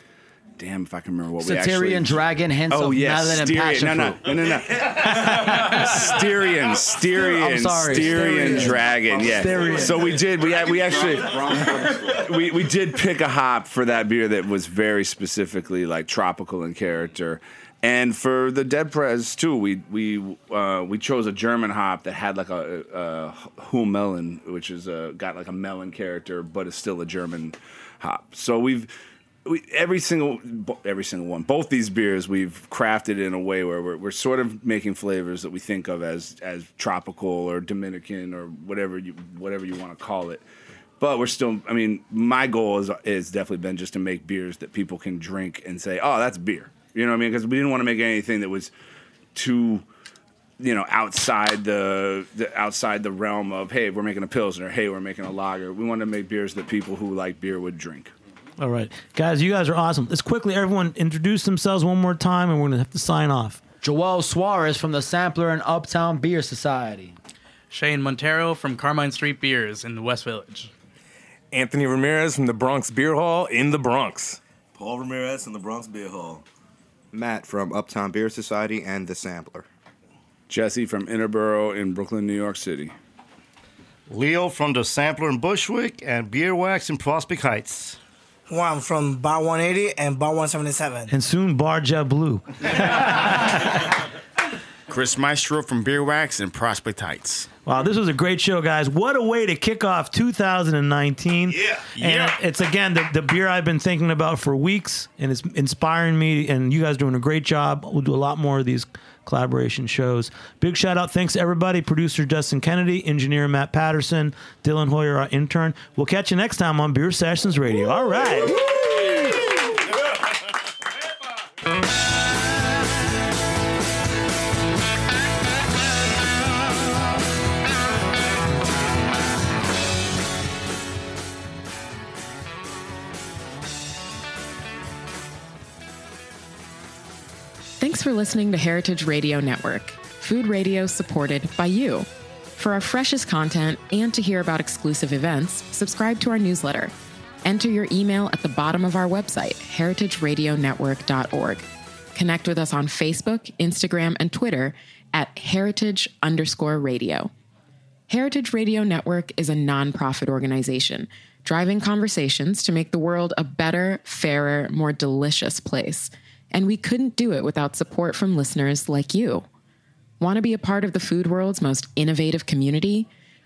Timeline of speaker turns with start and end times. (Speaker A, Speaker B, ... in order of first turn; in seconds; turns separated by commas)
Speaker A: 0.6-28.9, Speaker B: 1.4-4.3, Speaker B: 5.0-5.8, Speaker B: 7.0-10.2, Speaker C: 9.1-9.8, Speaker D: 10.5-11.9, Speaker A: 29.4-40.4, Speaker A: 41.0-48.7, Speaker A: 49.3-49.8, Speaker A: 50.6-58.1, Speaker E: 58.6-63.6, Speaker B: 63.8-67.2, Speaker F: 67.7-70.7, Speaker G: 71.5-74.4, Speaker D: 74.8-76.4, Speaker H: 77.1-79.7, Speaker A: 80.5-82.9, Speaker I: 84.1-88.0, Speaker C: 88.5-91.1, Speaker E: 91.1-93.9, Speaker J: 94.9-97.5, Speaker E: 97.7-119.4, Speaker K: 137.8-157.3, Speaker K: 158.1-169.4, Speaker K: 170.2-173.1